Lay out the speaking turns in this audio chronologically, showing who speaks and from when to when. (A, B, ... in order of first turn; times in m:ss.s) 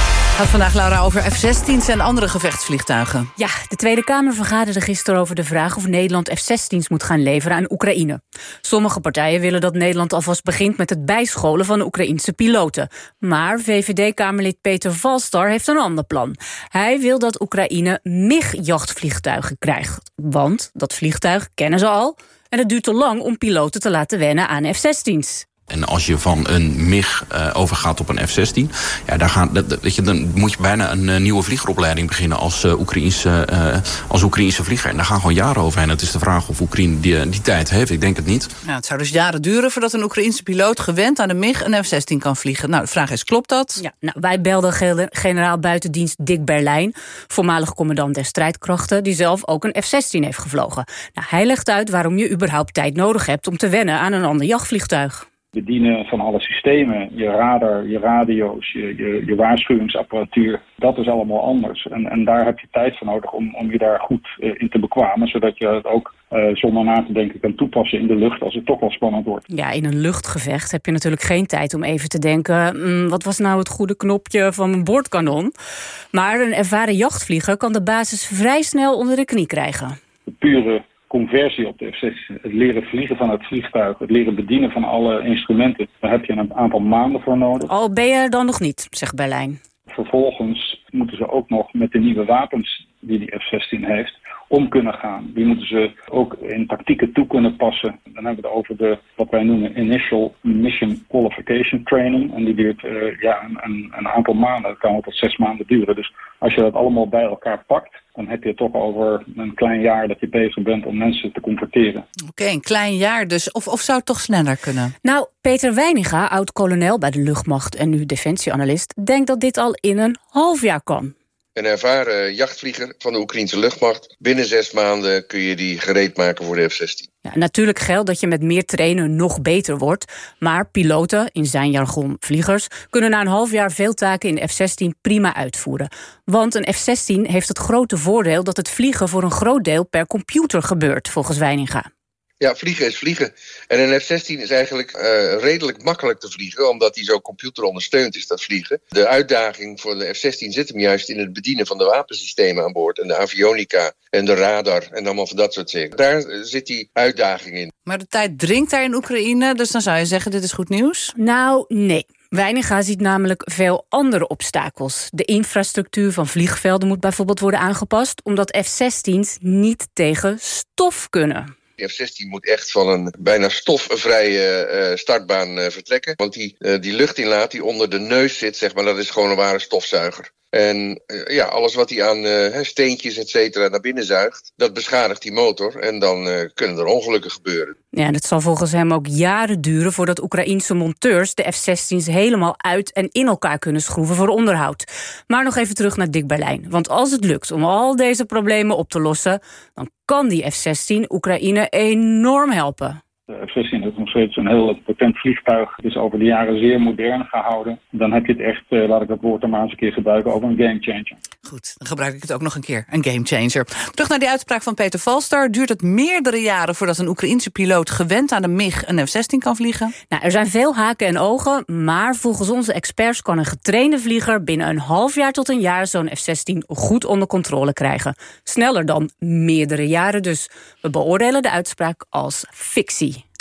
0:00.4-0:03.3 A
0:03.4-0:25.5 B
0:25.7-0:38.5 C
0:38.6-0:43.8 A
0:43.8-0:55.2 B
0:55.5-1:09.4 D
1:09.5-1:15.5 B
1:16.1-1:20.0 B
1:20.3-1:27.7 D
1:27.7-1:29.6 B
1:29.9-1:52.1 D
1:52.3-1:54.9 A
1:55.0-2:01.1 B
2:01.6-2:07.1 E
2:07.2-2:21.9 B
2:22.4-2:37.7 E
2:37.8-2:41.1 A
2:41.2-2:51.5 B
2:51.8-3:07.7 E
3:07.9-3:23.0 B
3:23.3-3:31.2 D
3:31.4-3:39.9 A
3:40.1-3:53.2 B